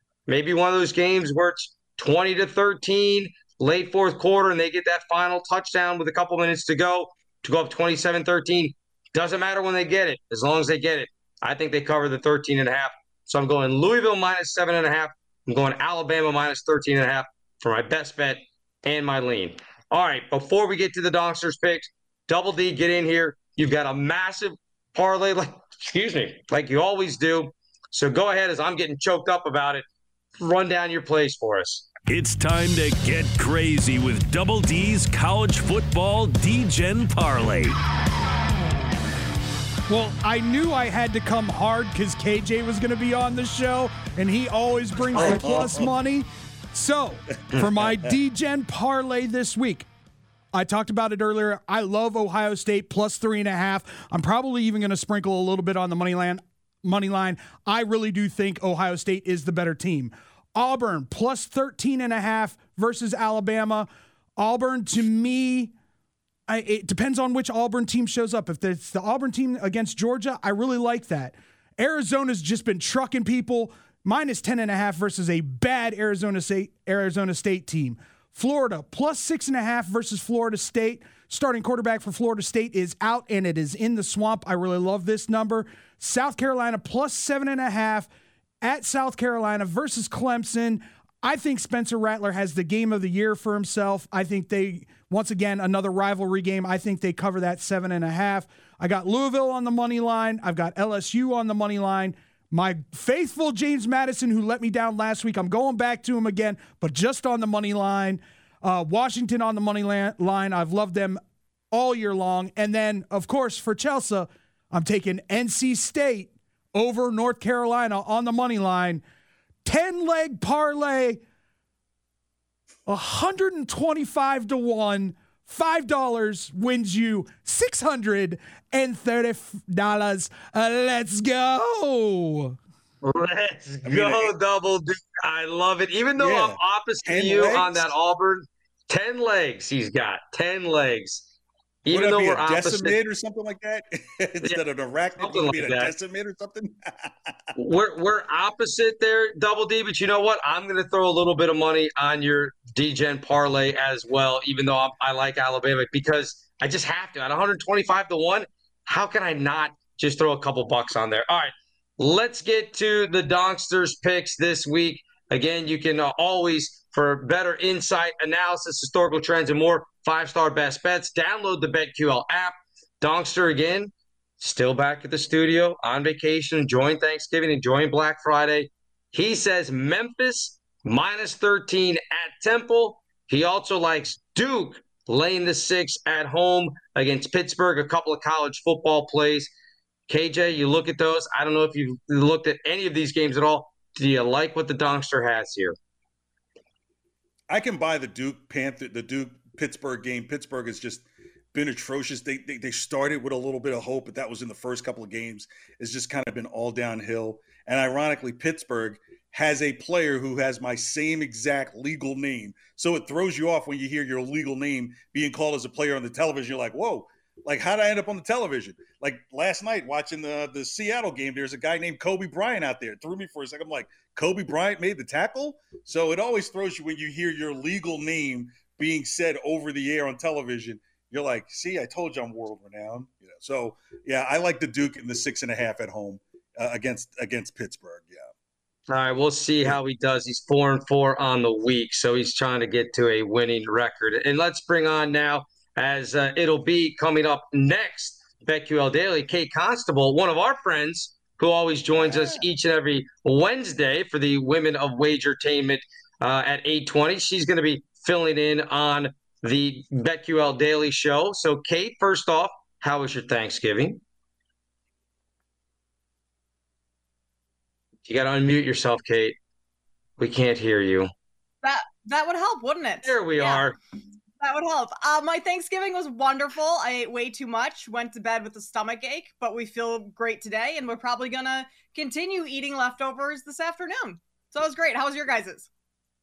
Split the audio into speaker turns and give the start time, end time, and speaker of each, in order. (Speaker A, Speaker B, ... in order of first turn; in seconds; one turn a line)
Speaker A: 0.3-29.8
Speaker A: 30.4-31.8
Speaker B: 32.1-37.8
Speaker C: 39.9-49.9
Speaker D: 45.1-45.9
Speaker C: 50.5-65.7
Speaker C: 66.5-88.1
Speaker C: 88.6-111.2
Speaker C: 111.7-119.0
Speaker C: 119.6-121.2
Speaker C: 122.9-132.6
Speaker A: 133.0-141.2
Speaker D: 133.8-134.3
Speaker D: 136.2-137.9
Speaker A: 141.8-143.0
Speaker D: 141.9-147.3
Speaker A: 145.2-145.9
Speaker A: 147.5-189.5
Speaker A: 190.1-195.8
Speaker D: 197.5-238.3
Speaker A: 238.9-264.0
Speaker D: 252.0-252.4
Speaker A: 268.0-269.4
Speaker A: 270.2-271.1
Speaker E: 271.6-273.7
Speaker A: 273.0-273.8
Speaker E: 274.4-285.7